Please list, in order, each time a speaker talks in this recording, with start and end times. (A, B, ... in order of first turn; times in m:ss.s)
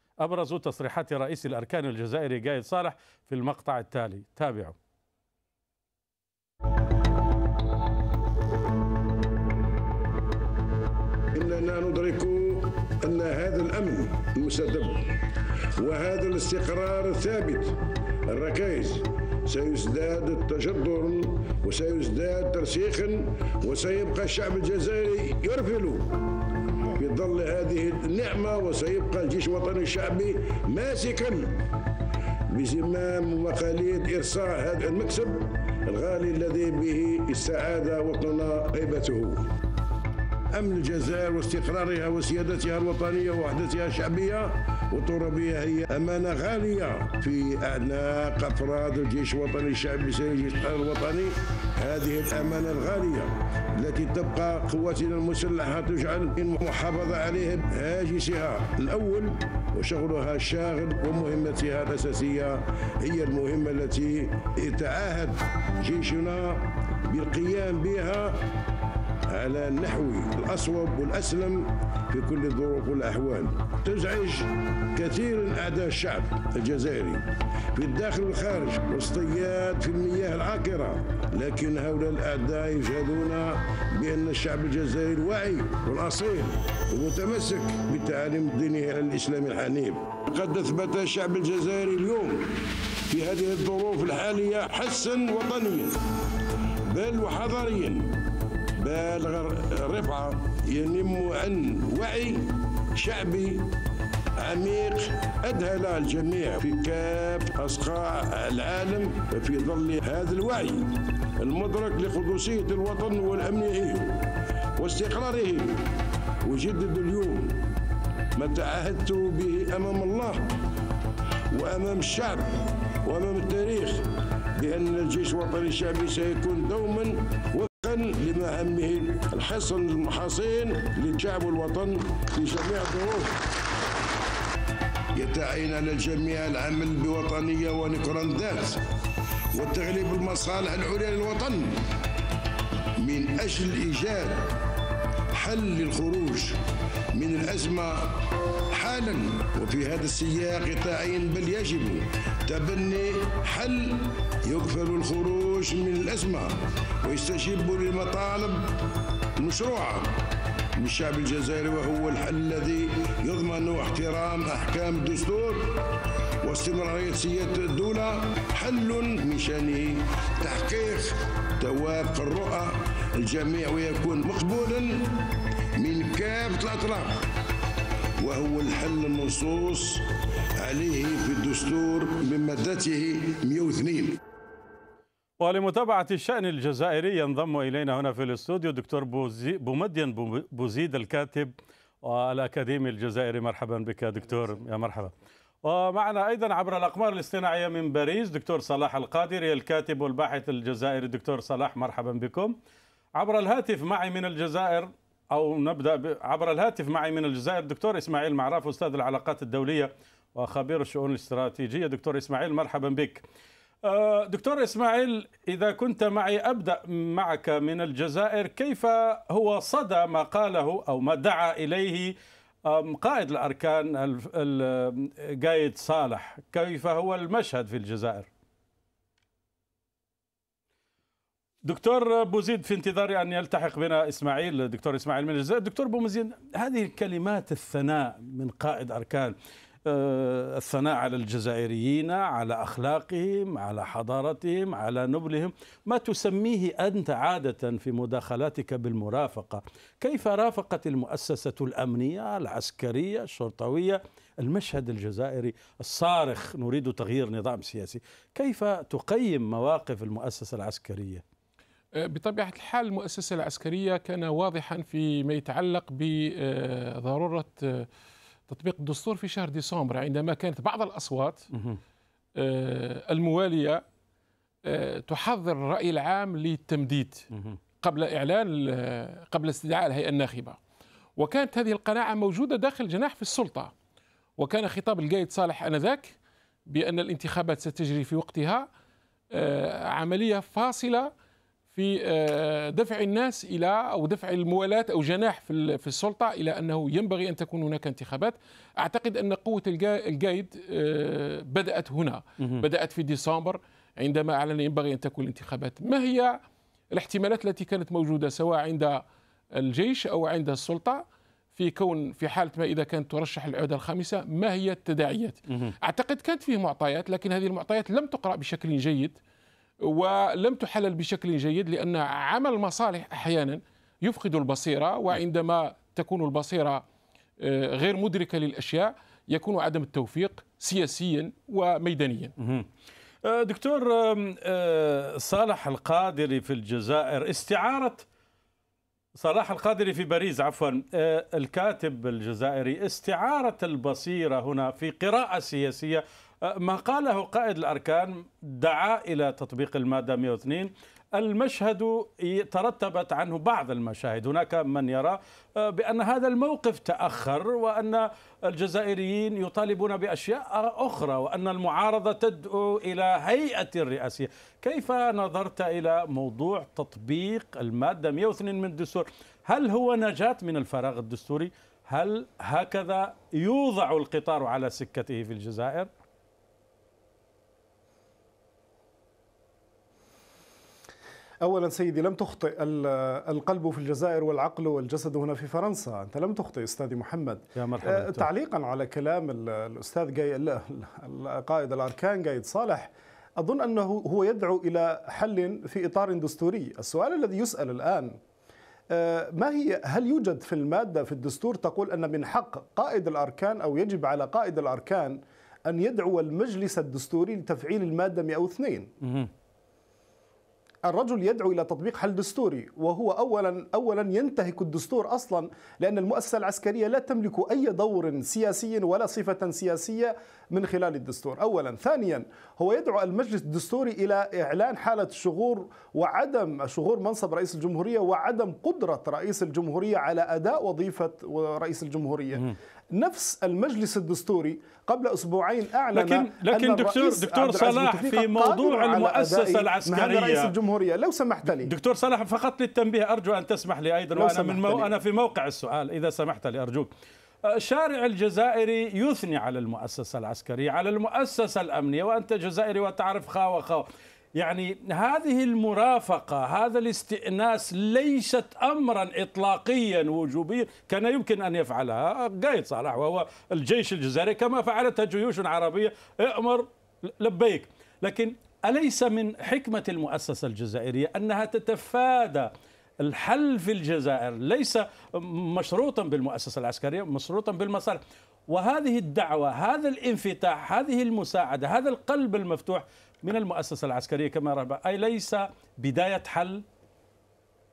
0:00.2-0:04.8 A
0:11.3-0:15.2 B
0:15.8-0:26.2 B
0:27.0-0:31.6 B
0:32.5-0:39.5 B
0:40.5-1:08.4 B
1:09.3-1:36.0 B
1:36.9-1:38.2 B
1:38.8-1:43.8 B
1:44.4-1:55.9 B
1:56.4-1:57.6 B
1:58.3-2:00.5 B
2:01.5-2:13.4 B
2:15.1-2:18.8 B
2:19.5-2:21.8 B
2:23.0-2:24.5 B
2:25.3-2:26.6 B
2:27.1-2:38.7 B
2:39.4-2:40.1 B
2:40.8-2:45.8 B
2:46.4-2:55.2 B
2:55.8-2:57.3 B
2:58.2-3:00.0 B
3:00.6-3:04.2 B
3:05.4-3:15.1 A
3:15.6-3:22.6 A
3:23.2-3:33.2 A
3:33.8-3:42.1 A
3:42.6-3:48.3 A
3:51.6-3:59.3 A
3:59.8-4:21.2 A
4:21.9-4:27.9 C
4:28.5-4:31.5 C
4:31.5-4:31.8 A
4:32.4-4:33.8 C
4:34.6-4:37.3 C
4:37.8-4:40.6 C
4:41.2-4:43.7 C
4:44.4-4:46.1 C
4:46.7-4:48.7 C
4:49.3-4:51.1 C
4:51.7-5:06.4 C
5:02.4-5:02.6 A
5:06.9-5:09.0 C
5:09.5-5:11.0 C
5:11.5-5:19.2 C
5:15.5-5:15.7 A
5:19.8-5:26.8 C
5:27.4-5:32.3 C
5:32.4-5:32.7 A
5:33.2-5:38.0 A
5:39.2-6:15.9 A
6:21.4-6:38.2 D
6:27.6-6:28.3 A
6:38.9-6:48.9 D
6:49.0-6:49.3 A
6:50.8-7:21.7 D
7:15.9-7:20.5 A
7:21.6-7:26.9 A
7:24.1-7:24.9 D
7:27.4-7:33.9 A
7:34.4-7:52.5 A
7:53.0-8:06.6 A